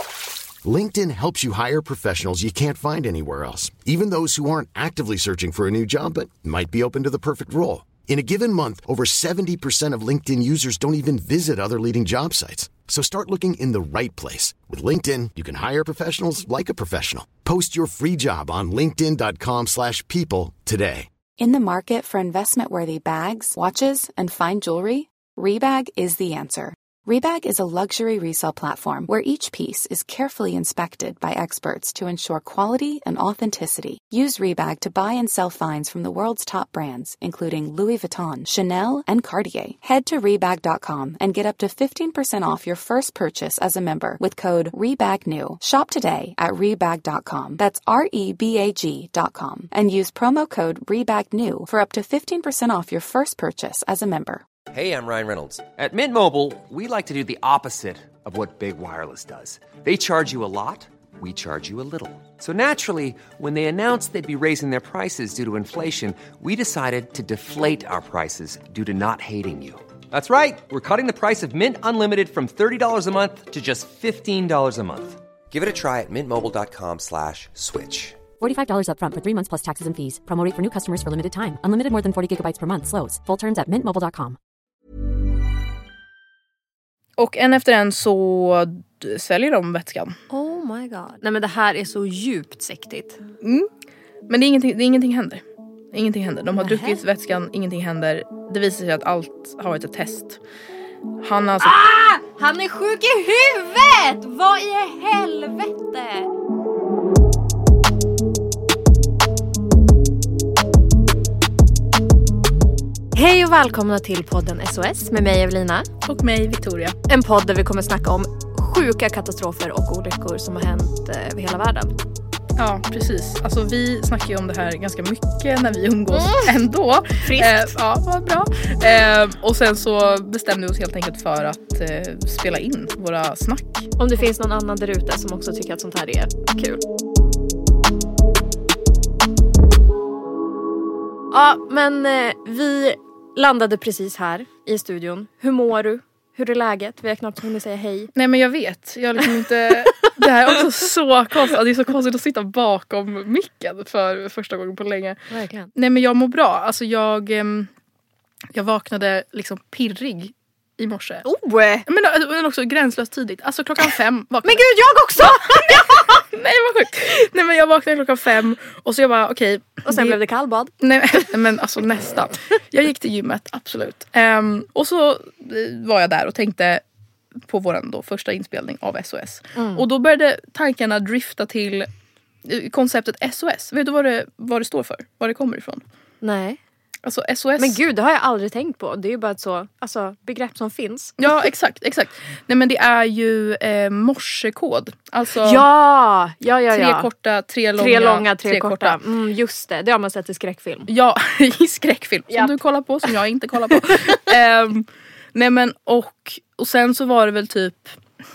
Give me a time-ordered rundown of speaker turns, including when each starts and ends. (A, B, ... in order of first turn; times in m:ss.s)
0:00.6-0:21.1 A
0:21.4-0:54.4 B
0:54.7-1:18.3 C
1:18.4-1:24.4 D
1:27.2-1:30.2 E
1:30.3-1:33.2 F
1:33.4-1:33.7 E
1:34.3-1:40.4 E
1:36.6-1:37.0 F
1:41.2-1:41.8 E
1:41.6-1:46.3 F
1:53.1-1:55.9 F
1:56.0-1:57.0 E
1:57.1-2:01.9 F
2:02.6-2:13.9 E
2:06.1-2:06.6 F
2:07.2-2:07.8 F
2:14.0-2:16.8 F
2:21.3-2:28.1 F
2:28.2-2:35.2 E
2:29.8-2:30.1 F
2:35.3-2:35.7 F
2:35.7-2:37.7 E
2:38.5-2:41.2 E
2:41.2-2:41.9 F
2:41.9-2:44.7 E
2:44.4-2:46.2 F
2:45.2-2:50.2 E
2:49.8-2:51.3 F
2:50.8-2:56.8 E
2:57.4-3:01.9 E
2:59.6-2:59.8 F
3:02.4-3:05.8 E
3:06.2-3:06.6 F
3:07.0-3:07.8 E
3:07.6-3:11.3 F
3:11.2-3:15.6 E
3:15.4-3:17.1 F
3:16.7-3:19.0 E
3:17.8-3:20.9 F
3:20.9-3:28.0 E
3:23.7-3:24.3 F